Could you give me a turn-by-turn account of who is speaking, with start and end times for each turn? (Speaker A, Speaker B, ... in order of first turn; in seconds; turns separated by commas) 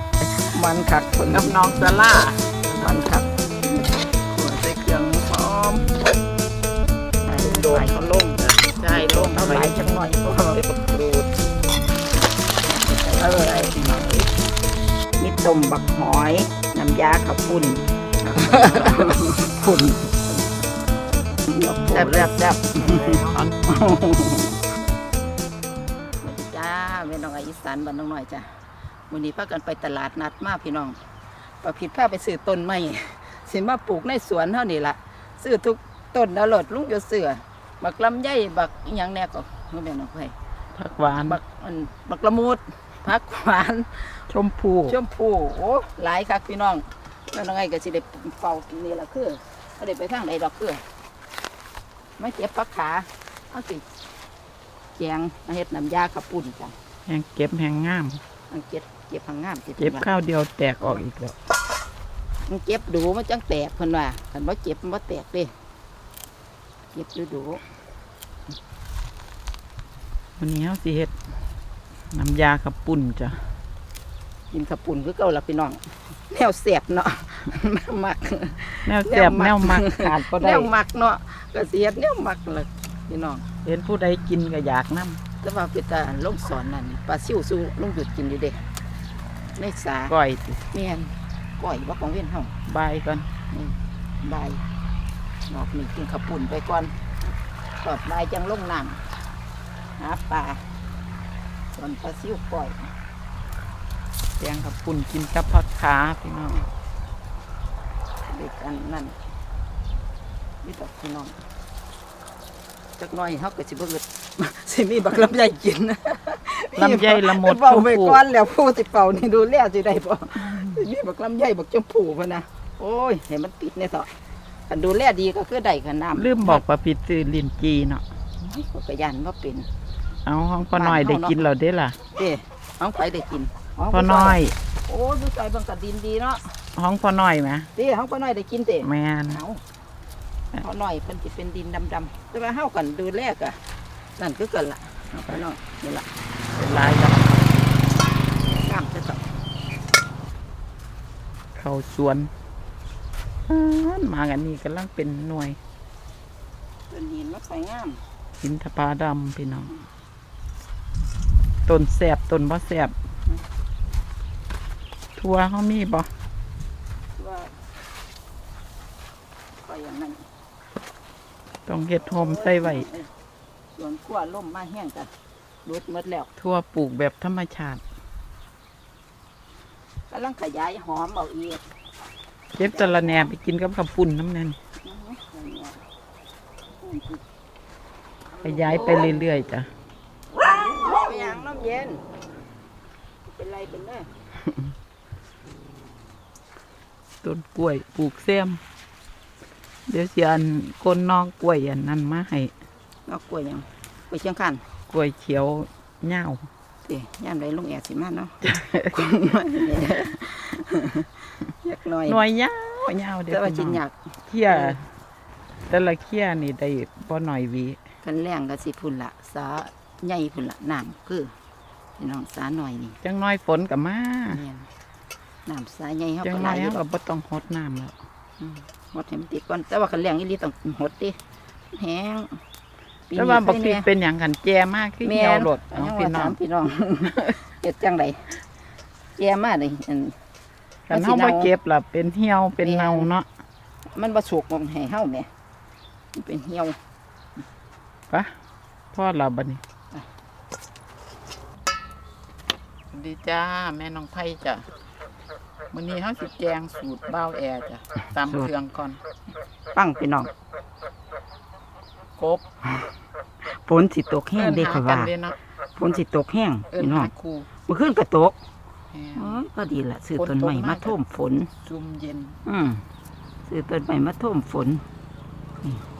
Speaker A: 0.3-1.8, Speaker B: 1.3-3.0, Speaker A: 2.8-6.0, Speaker A: 7.2-10.6, Speaker B: 7.4-11.3, Speaker A: 12.6-14.3, Speaker A: 15.2-19.7, Speaker B: 18.5-19.0, Speaker B: 19.6-20.0, Speaker A: 21.4-24.6, Speaker B: 21.9-22.3, Speaker B: 23.2-23.6, Speaker A: 26.2-40.4, Speaker B: 40.8-41.4, Speaker A: 41.0-44.3, Speaker B: 44.3-45.0, Speaker A: 44.9-50.8, Speaker A: 52.2-53.9, Speaker A: 55.0-56.8, Speaker B: 57.1-58.2, Speaker A: 58.5-60.1, Speaker B: 59.8-61.4, Speaker A: 62.5-65.5, Speaker A: 66.9-67.6, Speaker B: 70.4-71.2, Speaker B: 72.1-73.4, Speaker A: 74.5-83.5, Speaker B: 78.9-80.7, Speaker B: 83.6-85.2, Speaker A: 85.4-88.7, Speaker A: 89.6-90.2, Speaker B: 90.1-90.6, Speaker A: 90.7-92.5, Speaker B: 92.7-93.3, Speaker A: 93.5-94.7, Speaker A: 95.5-99.0, Speaker A: 100.0-100.7, Speaker A: 101.7-102.9, Speaker B: 104.4-106.7, Speaker A: 108.3-109.2, Speaker A: 110.6-111.4, Speaker A: 113.0-124.1, Speaker B: 116.8-118.2, Speaker A: 124.7-126.6, Speaker B: 126.2-128.0, Speaker A: 128.4-129.7, Speaker B: 130.2-132.0, Speaker A: 130.8-131.4, Speaker A: 132.1-136.5, Speaker B: 133.9-134.6, Speaker B: 136.8-137.7, Speaker A: 137.8-139.6, Speaker B: 138.8-139.4, Speaker A: 140.6-143.6, Speaker A: 144.2-146.1, Speaker B: 146.5-147.6, Speaker A: 148.4-149.2, Speaker B: 151.6-152.3, Speaker B: 153.5-155.6, Speaker A: 156.9-158.1, Speaker B: 158.4-159.7, Speaker B: 161.7-162.9, Speaker B: 165.2-166.1, Speaker A: 167.2-167.6, Speaker A: 169.6-170.3, Speaker B: 171.7-172.9, Speaker A: 172.0-173.1, Speaker A: 173.8-175.1, Speaker A: 175.7-176.3, Speaker B: 176.4-177.8, Speaker A: 180.1-181.7, Speaker B: 182.6-184.6, Speaker A: 182.6-183.3, Speaker A: 184.8-185.8, Speaker A: 186.8-187.2, Speaker A: 188.4-189.2, Speaker B: 188.4-189.7, Speaker A: 190.3-192.1, Speaker A: 193.2-194.1, Speaker B: 197.2-198.6, Speaker B: 199.9-202.5, Speaker A: 203.1-204.7, Speaker B: 204.9-206.5, Speaker A: 206.8-208.4, Speaker B: 208.4-209.7, Speaker A: 209.5-212.2, Speaker B: 212.1-214.9, Speaker A: 213.3-214.8, Speaker B: 215.7-217.8, Speaker A: 218.0-221.3, Speaker A: 222.0-223.0, Speaker B: 223.0-224.4, Speaker A: 224.3-224.7, Speaker A: 225.5-226.8, Speaker B: 226.2-227.9, Speaker A: 228.4-231.2, Speaker A: 231.7-232.4, Speaker A: 233.1-233.9, Speaker B: 233.2-236.4, Speaker A: 235.0-238.4, Speaker A: 239.2-240.2, Speaker B: 240.9-243.3, Speaker A: 240.9-241.5, Speaker A: 242.6-243.1, Speaker A: 243.9-245.3, Speaker A: 246.2-246.8, Speaker B: 248.9-249.6, Speaker B: 252.9-254.7, Speaker B: 255.7-259.0, Speaker A: 259.7-260.3, Speaker B: 262.2-262.4, Speaker A: 263.4-265.1, Speaker B: 264.4-265.4, Speaker A: 265.8-267.1, Speaker B: 266.7-267.5, Speaker A: 267.7-268.4, Speaker B: 268.9-269.4, Speaker A: 269.2-271.5, Speaker B: 270.2-271.0, Speaker B: 271.6-272.4, Speaker A: 272.5-272.9, Speaker A: 273.5-274.8